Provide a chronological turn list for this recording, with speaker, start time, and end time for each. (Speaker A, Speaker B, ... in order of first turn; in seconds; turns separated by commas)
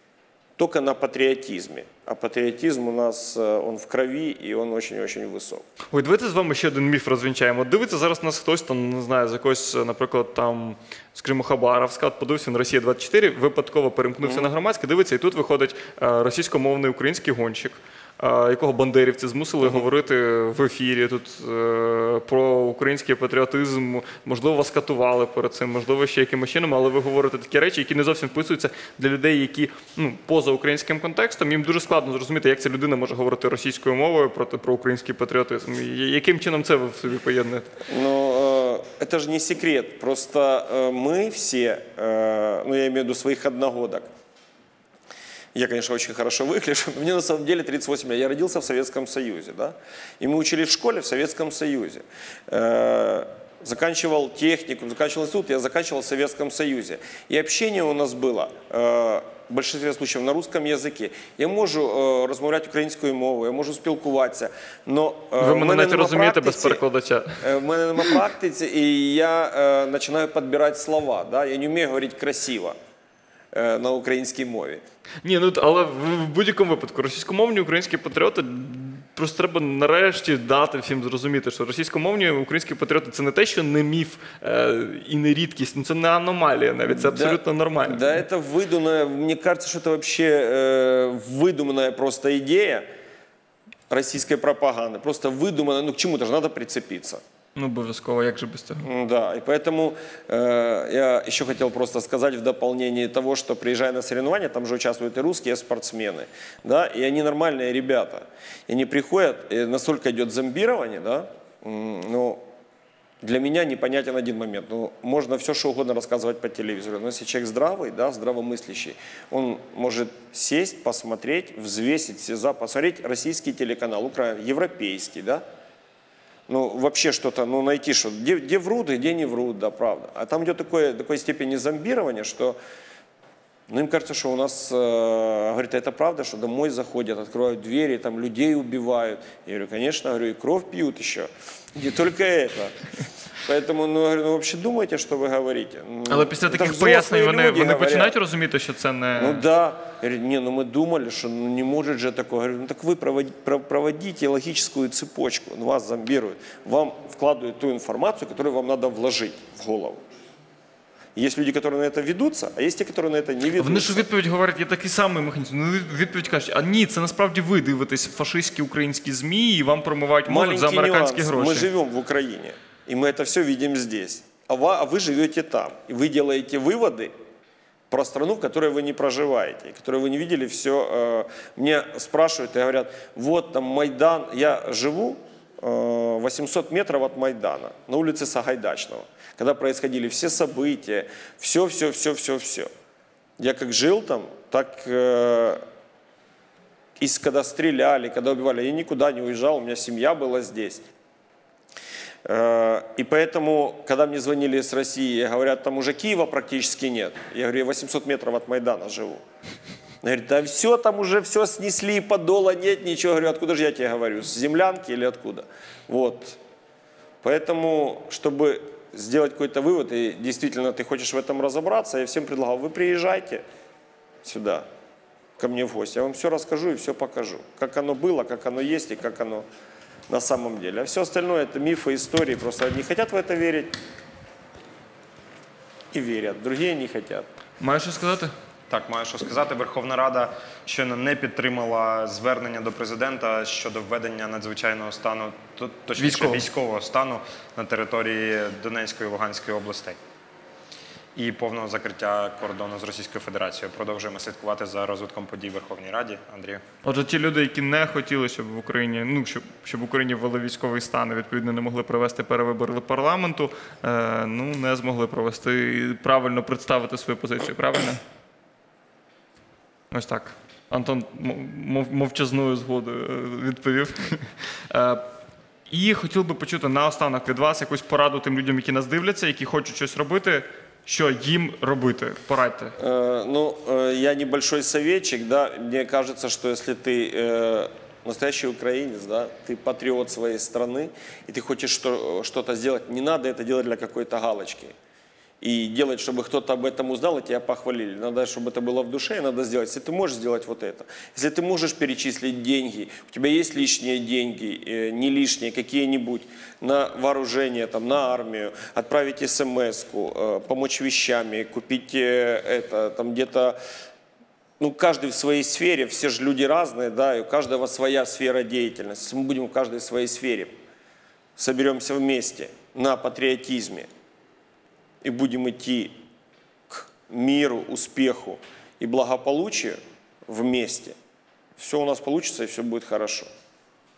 Speaker A: 0.6-5.7, Speaker B: 5.9-37.7, Speaker A: 14.2-14.5, Speaker A: 37.9-44.1, Speaker A: 45.5-66.8, Speaker B: 65.4-67.5, Speaker A: 67.4-72.8, Speaker A: 73.5-74.8, Speaker B: 75.2-88.2, Speaker A: 87.0-92.9, Speaker A: 93.9-97.2, Speaker B: 97.6-98.9, Speaker A: 98.8-112.4, Speaker A: 113.2-125.4, Speaker A: 126.5-132.6, Speaker A: 133.7-142.8, Speaker A: 143.4-148.2, Speaker B: 146.1-149.4, Speaker A: 149.2-160.0, Speaker A: 161.2-164.0, Speaker B: 163.6-171.7, Speaker A: 170.3-177.1, Speaker A: 177.9-192.7, Speaker A: 193.4-195.6, Speaker A: 197.0-200.8, Speaker A: 202.2-209.2, Speaker A: 210.0-216.4, Speaker A: 217.2-223.4, Speaker A: 224.2-224.7, Speaker A: 225.4-229.5, Speaker A: 230.1-233.8, Speaker A: 235.9-237.3, Speaker B: 237.6-238.3, Speaker C: 238.7-250.0, Speaker B: 246.0-246.4, Speaker C: 251.2-256.6, Speaker B: 256.8-268.0, Speaker B: 269.9-275.1, Speaker B: 275.7-282.8, Speaker A: 282.8-294.8, Speaker A: 295.4-313.6, Speaker A: 314.6-320.5, Speaker A: 321.4-323.9, Speaker A: 325.0-326.0, Speaker A: 326.7-331.0, Speaker A: 331.6-333.3